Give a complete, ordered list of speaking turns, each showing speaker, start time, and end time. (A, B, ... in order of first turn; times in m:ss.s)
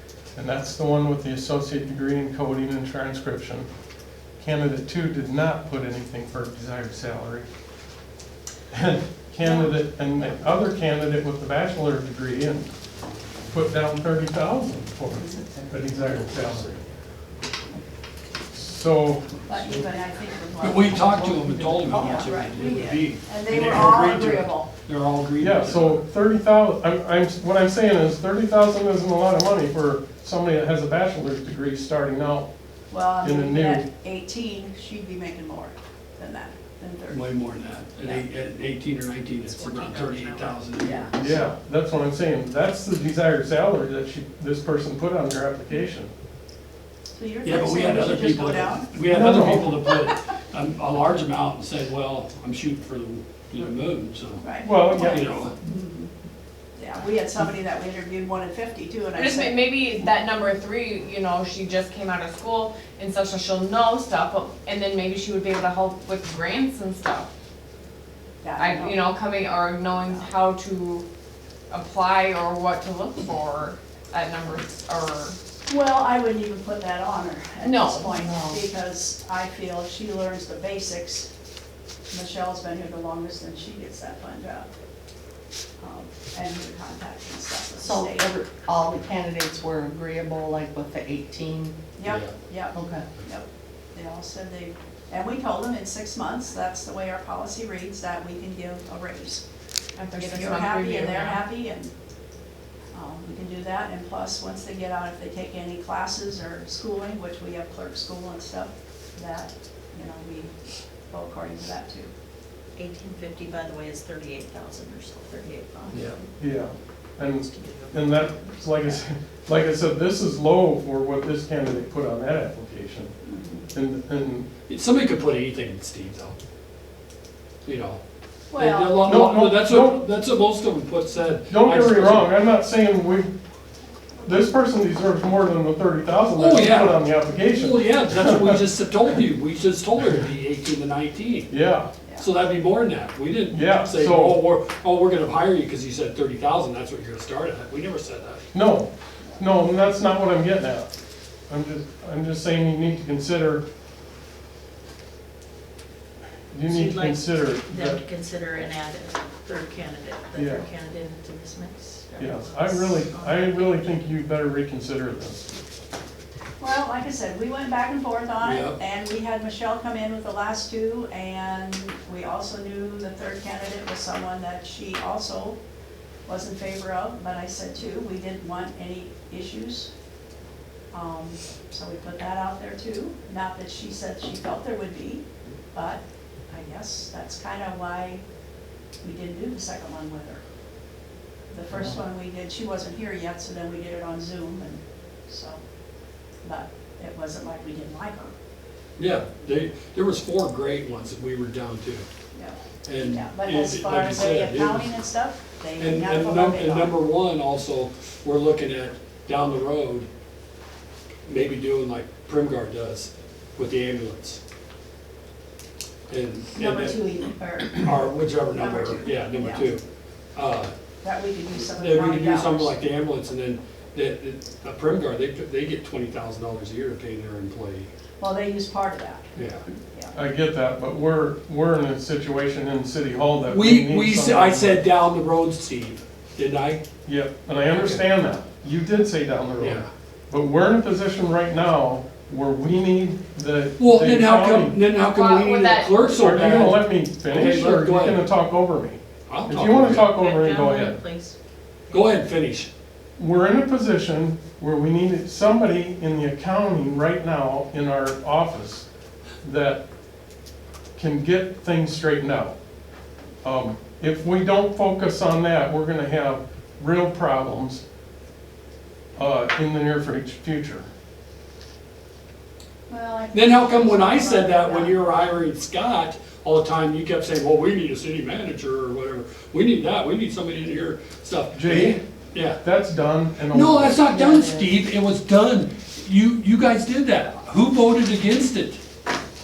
0:00.3-0:03.7 A
0:04.4-0:07.5 A
0:08.7-0:12.7 A
0:09.4-0:09.7 B
0:13.5-0:16.8 A
0:15.1-0:15.4 B
0:18.5-0:19.3 A
0:19.5-0:24.7 B
0:20.6-0:26.0 C
0:25.4-0:32.5 A
0:32.9-0:37.3 B
0:33.2-0:33.8 A
0:37.1-0:41.1 C
0:38.0-0:38.2 B
0:39.4-0:41.1 D
0:40.8-0:41.4 B
0:41.1-0:46.1 A
0:47.1-0:48.9 B
0:47.4-0:55.5 C
0:49.1-0:49.8 A
0:54.4-0:56.1 B
0:54.6-0:55.2 A
0:56.8-0:59.6 B
0:59.1-1:07.3 E
1:08.4-1:09.0 B
1:08.6-1:11.1 E
1:10.0-1:10.3 B
1:11.7-1:15.3 E
1:15.7-1:21.3 B
1:17.6-1:18.1 E
1:18.2-1:18.6 F
1:22.1-1:24.7 B
1:25.8-1:28.3 B
1:27.8-1:31.7 F
1:32.0-1:39.4 B
1:32.0-1:32.3 C
1:32.7-1:33.0 F
1:40.0-1:41.4 E
1:40.2-1:41.9 B
1:42.9-1:50.5 B
1:51.1-1:52.1 B
1:52.8-1:56.0 D
1:55.9-1:56.2 C
1:56.4-2:03.1 A
1:57.4-1:59.0 D
2:03.2-2:03.7 B
2:03.7-2:04.5 A
2:04.7-2:06.4 C
2:07.6-2:08.0 C
2:08.5-2:09.2 B
2:08.6-2:12.4 C
2:09.0-2:10.0 A
2:11.5-2:13.3 A
2:14.2-2:18.6 A
2:16.3-2:21.5 C
2:21.5-2:21.9 A
2:22.0-2:22.3 B
2:22.2-2:28.4 C
2:23.5-2:24.4 A
2:28.5-2:30.9 A
2:31.5-2:33.6 A
2:36.5-2:38.0 A
2:36.7-2:43.9 D
2:40.3-2:40.6 A
2:42.2-2:45.5 A
2:46.6-2:55.6 B
2:48.4-2:48.8 C
2:56.2-2:59.9 B
3:00.9-3:08.2 B
3:09.0-3:10.4 B
3:11.5-3:15.6 B
3:16.4-3:18.3 B
3:19.0-3:22.0 C
3:22.3-3:27.0 B
3:22.8-3:24.9 C
3:25.8-3:30.1 C
3:31.3-3:34.4 C
3:36.1-3:37.1 C
3:36.5-3:39.7 B
3:37.7-3:39.8 C
3:40.3-3:40.7 C
3:41.0-3:42.7 B
3:41.6-3:47.9 C
3:48.2-3:49.3 B
3:49.4-3:49.6 C
3:49.8-3:50.1 B
3:50.1-3:54.8 A
3:53.4-3:56.8 C
3:57.0-4:04.8 A
3:57.7-3:58.0 C
3:59.6-3:59.9 C
4:03.8-4:08.2 C
4:05.0-4:06.0 E
4:06.1-4:11.0 A
4:09.3-4:10.2 C
4:10.1-4:11.3 D
4:11.9-4:12.7 C
4:13.2-4:18.8 A
4:19.4-4:19.8 A
4:21.0-4:22.6 A
4:23.4-4:27.8 A
4:29.2-4:30.9 A
4:32.9-4:35.1 B
4:33.3-4:42.6 C
4:41.5-4:42.0 A
4:42.6-4:44.0 A
4:43.5-4:48.8 C
4:44.1-4:44.6 F